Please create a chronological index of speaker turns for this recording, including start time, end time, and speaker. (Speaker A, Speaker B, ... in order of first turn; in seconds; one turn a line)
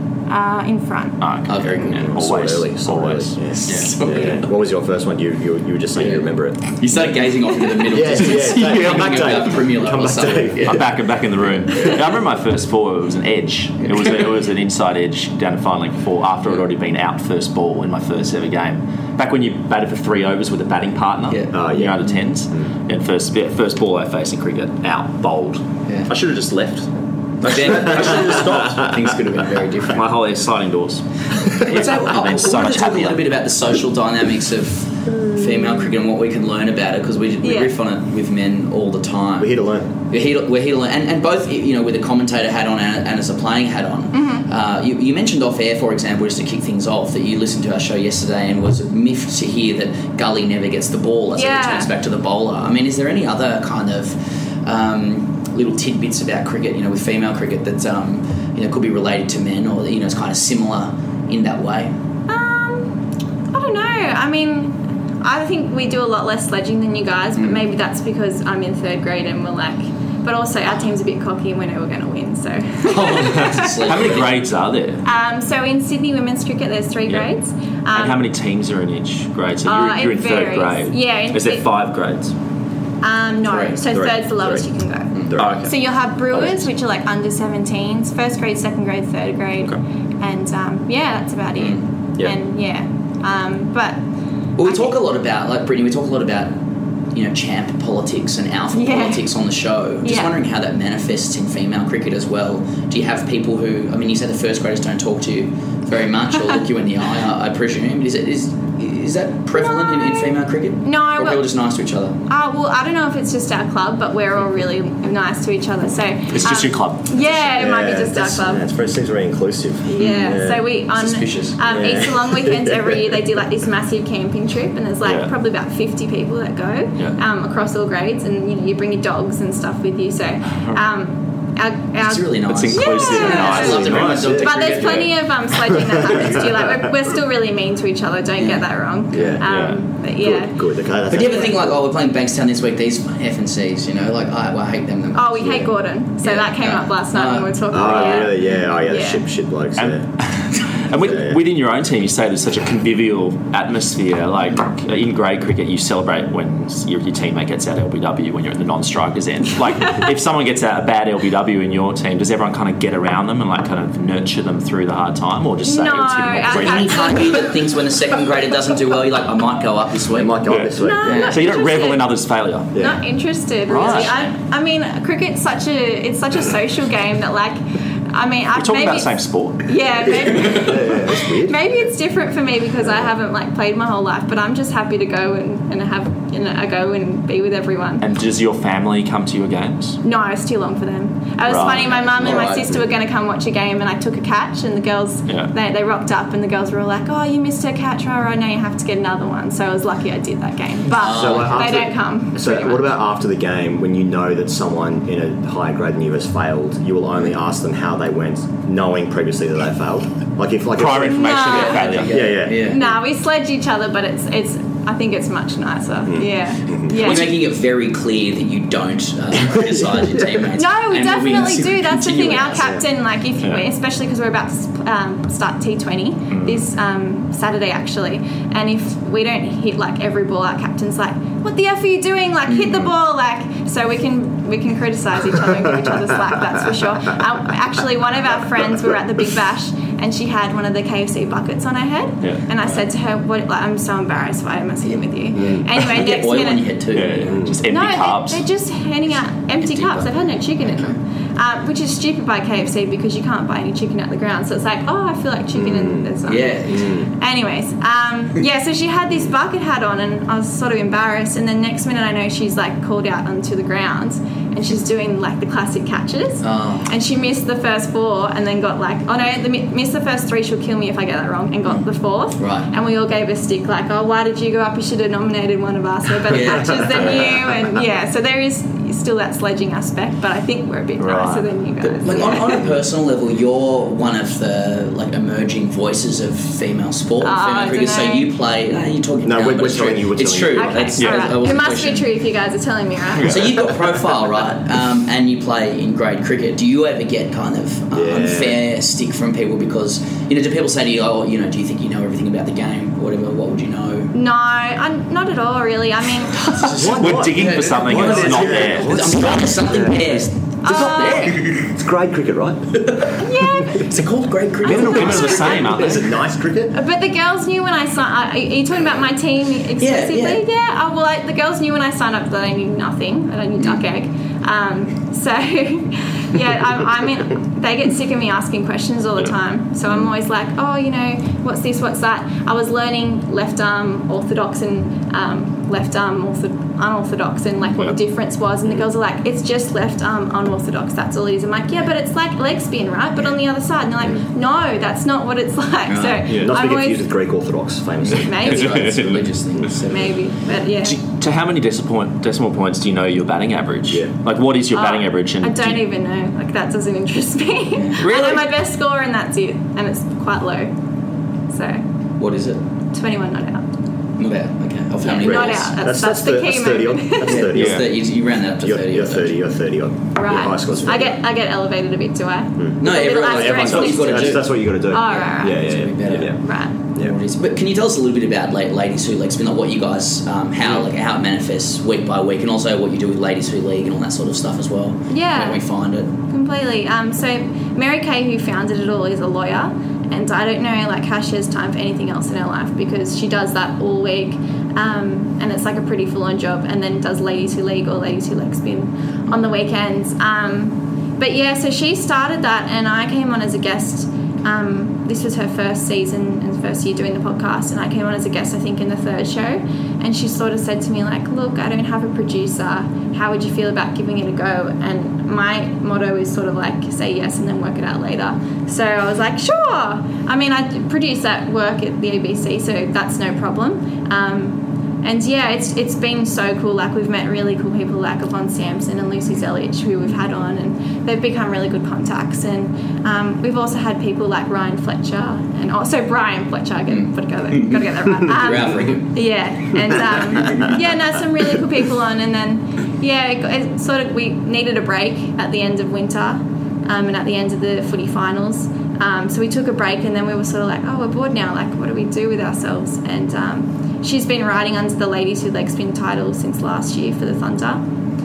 Speaker A: 0.3-1.2
Speaker B: 1.2-4.0
Speaker C: 1.5-2.2
Speaker D: 1.8-6.9
Speaker C: 3.6-4.5
Speaker C: 6.0-10.8
Speaker D: 7.8-10.9
Speaker B: 10.6-26.9
Speaker C: 13.9-14.2
Speaker D: 21.5-22.7
Speaker B: 27.4-28.9
Speaker C: 27.4-30.1
Speaker B: 29.9-33.2
Speaker C: 31.6-61.9
Speaker A: 37.4-37.8
Speaker D: 39.4-39.9
Speaker A: 44.1-44.5
Speaker A: 51.4-51.9
Speaker A: 62.3-63.0
Speaker A: 63.5-73.7
Speaker C: 72.8-74.5
Speaker B: 73.6-75.0
Speaker A: 75.0-78.2
Speaker B: 77.9-82.3
Speaker A: 79.7-81.7
Speaker A: 83.0-94.0
Speaker C: 83.5-83.8
Speaker D: 83.9-84.7
Speaker D: 85.3-85.6
Speaker B: 85.4-86.7
Speaker C: 91.6-91.9
Speaker C: 94.6-96.6
Speaker A: 94.6-94.9
Speaker C: 97.1-112.2
Speaker A: 98.7-99.3
Speaker A: 100.0-100.3
Speaker A: 109.5-111.5
Speaker A: 112.3-118.7
Speaker B: 116.3-117.3
Speaker D: 117.5-120.6
Speaker A: 119.9-140.6
Speaker C: 120.0-120.4
Speaker C: 120.9-121.6
Speaker D: 121.7-123.0
Speaker B: 125.0-125.3
Speaker C: 132.0-135.1
Speaker B: 132.5-134.4
Speaker D: 133.8-135.0
Speaker D: 135.7-136.9
Speaker C: 138.4-138.7
Speaker D: 139.1-139.4
Speaker B: 139.4-139.8
Speaker D: 140.2-141.8
Speaker C: 141.1-145.7
Speaker A: 145.2-149.2
Speaker C: 146.2-148.3
Speaker D: 147.7-150.1
Speaker B: 149.8-167.1
Speaker D: 150.9-151.4
Speaker A: 165.6-167.5
Speaker C: 166.5-170.4
Speaker D: 170.1-171.3
Speaker B: 170.5-170.8
Speaker A: 170.8-172.2
Speaker C: 171.1-171.3
Speaker B: 171.3-172.7
Speaker A: 172.8-177.6
Speaker B: 173.7-174.2
Speaker A: 178.1-188.1
Speaker B: 178.5-179.8
Speaker D: 180.4-181.9
Speaker D: 182.8-183.1
Speaker B: 188.0-190.0
Speaker A: 190.0-203.0
Speaker B: 191.5-192.5
Speaker C: 191.8-192.8
Speaker B: 195.3-195.5
Speaker C: 200.9-201.8
Speaker D: 201.0-212.9
Speaker B: 210.8-212.4
Speaker A: 211.0-217.4
Speaker C: 211.5-212.8
Speaker D: 216.1-217.2
Speaker C: 216.9-222.8
Speaker A: 220.6-246.7
Speaker B: 223.4-223.7
Speaker B: 226.3-226.7
Speaker D: 245.4-245.7
Speaker C: 245.8-247.5
Speaker B: 246.9-248.4
Speaker D: 247.3-247.6
Speaker A: 247.7-282.5
Speaker C: 249.6-251.0
Speaker D: 255.5-256.1
Speaker C: 256.3-256.9
Speaker D: 256.7-257.1
Speaker C: 266.4-266.9
Speaker C: 272.4-272.7
Speaker C: 276.3-277.3
Speaker B: 281.0-281.5
Speaker C: 281.8-292.1
Speaker A: 287.2-288.3
Speaker D: 289.2-290.8
Speaker A: 290.6-293.4
Speaker B: 291.0-291.3
Speaker C: 293.3-304.1
Speaker D: 297.9-298.6
Speaker A: 304.1-306.4
Speaker C: 306.5-311.6
Speaker B: 306.7-309.1
Speaker D: 306.7-310.2
Speaker A: 310.6-311.4
Speaker B: 310.6-311.4
Speaker D: 311.5-312.9
Speaker C: 312.8-313.1
Speaker A: 313.2-313.9
Speaker C: 313.8-315.8
Speaker A: 314.6-315.7
Speaker B: 314.6-316.1
Speaker D: 314.7-316.8
Speaker A: 316.7-347.1
Speaker C: 319.8-320.4
Speaker C: 345.9-346.3
Speaker D: 346.3-349.7
Speaker A: 348.1-348.8
Speaker C: 348.4-350.2
Speaker B: 348.7-349.1
Speaker A: 349.9-351.0
Speaker B: 350.8-355.8
Speaker D: 353.9-354.1
Speaker A: 354.7-360.7
Speaker C: 357.8-358.1
Speaker B: 358.0-358.5
Speaker A: 361.5-361.8
Speaker C: 362.2-362.6
Speaker A: 362.9-363.6
Speaker C: 364.2-365.8
Speaker A: 365.0-367.4
Speaker D: 365.3-368.0
Speaker C: 367.2-369.3
Speaker B: 367.5-367.9
Speaker D: 368.6-371.2
Speaker A: 370.1-375.7
Speaker D: 372.6-376.4
Speaker C: 372.8-376.3
Speaker A: 376.4-376.8
Speaker C: 377.0-386.1
Speaker A: 385.1-385.6
Speaker A: 386.3-457.8
Speaker C: 436.9-439.1